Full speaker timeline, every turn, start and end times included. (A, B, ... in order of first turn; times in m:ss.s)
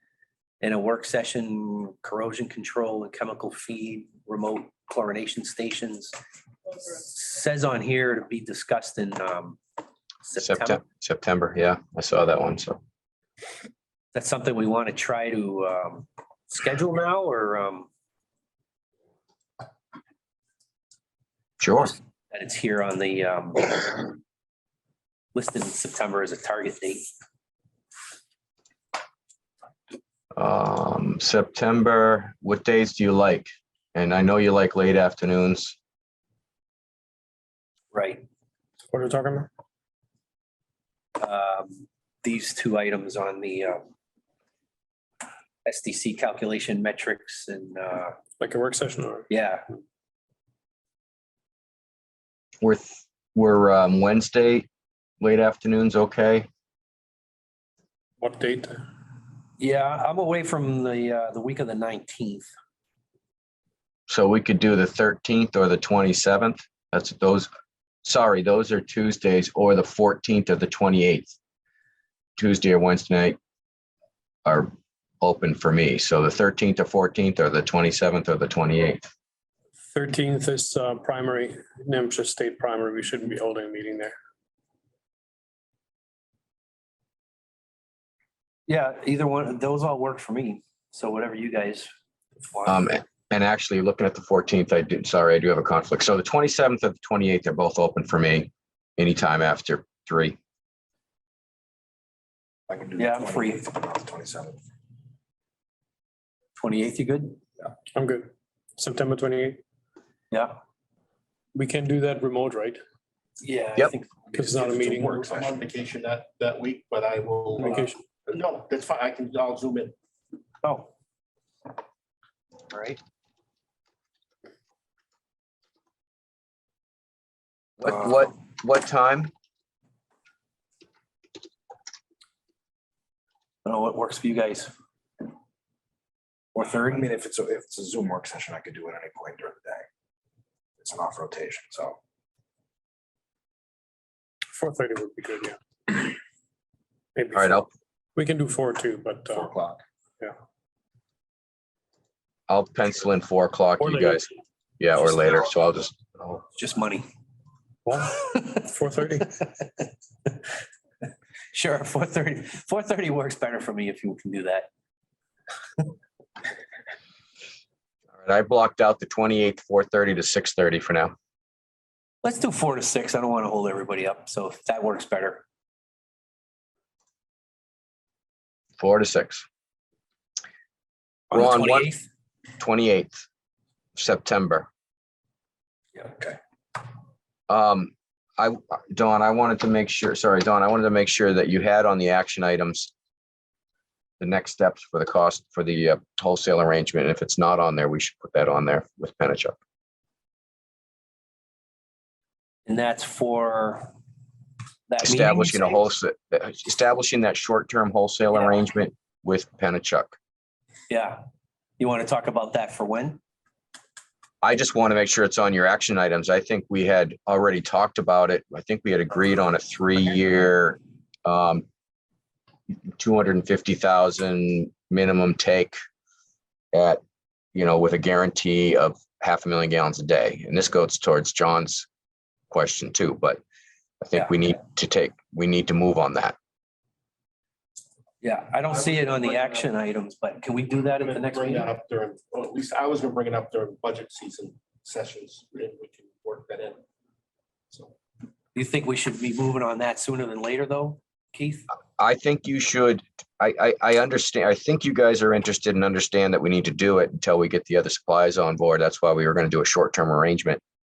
0:00.6-0:06.2 A
0:06.9-0:09.6 A
0:10.2-0:10.8 A
0:10.4-0:12.8 B
0:14.1-0:17.9 A
0:21.6-0:22.0 B
0:22.3-0:24.1 A
0:25.3-0:27.1 A
0:30.3-0:35.8 B
0:37.9-0:38.2 A
0:38.9-0:39.5 C
0:41.2-0:43.8 A
0:45.6-0:48.2 A
0:48.4-0:49.3 C
0:49.3-0:49.6 A
0:52.6-0:54.7 B
0:55.2-0:56.5 B
0:58.2-0:58.8 C
0:59.6-1:02.5 A
1:04.1-1:07.5 B
1:08.0-1:11.3 B
1:12.4-1:13.4 B
1:14.4-1:19.1 B
1:19.9-1:24.1 C
1:28.7-1:32.9 A
1:32.6-1:40.4 B
1:42.7-1:44.6 D
1:43.0-1:43.7 A
1:46.6-1:47.4 A
1:47.9-1:49.6 C
1:50.3-1:50.6 A
1:51.5-1:52.8 C
1:53.4-1:55.4 A
1:54.3-1:55.3 C
1:55.1-1:59.9 E
1:57.6-1:58.0 C
2:00.6-2:00.9 A
2:02.7-2:03.0 A
2:07.8-2:09.3 B
2:13.6-2:14.7 A
2:16.5-2:17.1 A
2:16.6-2:19.9 D
2:20.8-2:22.0 D
2:24.5-2:26.1 C
2:27.2-2:27.6 C
2:27.3-2:27.7 B
2:28.2-2:29.5 C
2:29.3-2:29.8 D
2:32.5-2:34.3 B
2:33.8-2:34.2 C
2:34.8-2:36.4 B
2:36.5-2:37.0 A
2:37.8-2:39.3 C
2:37.9-2:38.6 A
2:39.4-2:40.4 A
2:41.5-2:44.7 A
2:48.2-2:51.1 B
2:52.2-2:55.4 A
2:58.8-2:59.4 B
3:01.3-3:01.9 B
3:01.3-3:02.1 A
3:02.6-3:03.2 B
3:04.0-3:04.7 B
3:07.5-3:12.9 B
3:14.2-3:19.6 B
3:22.6-3:23.9 A
3:24.9-3:25.8 A
3:25.0-3:30.2 B
3:30.9-3:31.2 A
3:31.8-3:33.2 A
3:34.4-3:41.6 B
3:43.0-3:45.8 B
3:46.7-3:47.0 B
3:47.5-3:51.9 B
3:52.5-3:53.4 B
3:54.0-3:56.4 B
3:54.1-3:54.5 A
3:58.2-4:01.7 A
3:58.7-3:59.7 E
4:00.9-4:06.8 E
4:08.5-4:11.7 A
4:12.0-4:20.6 B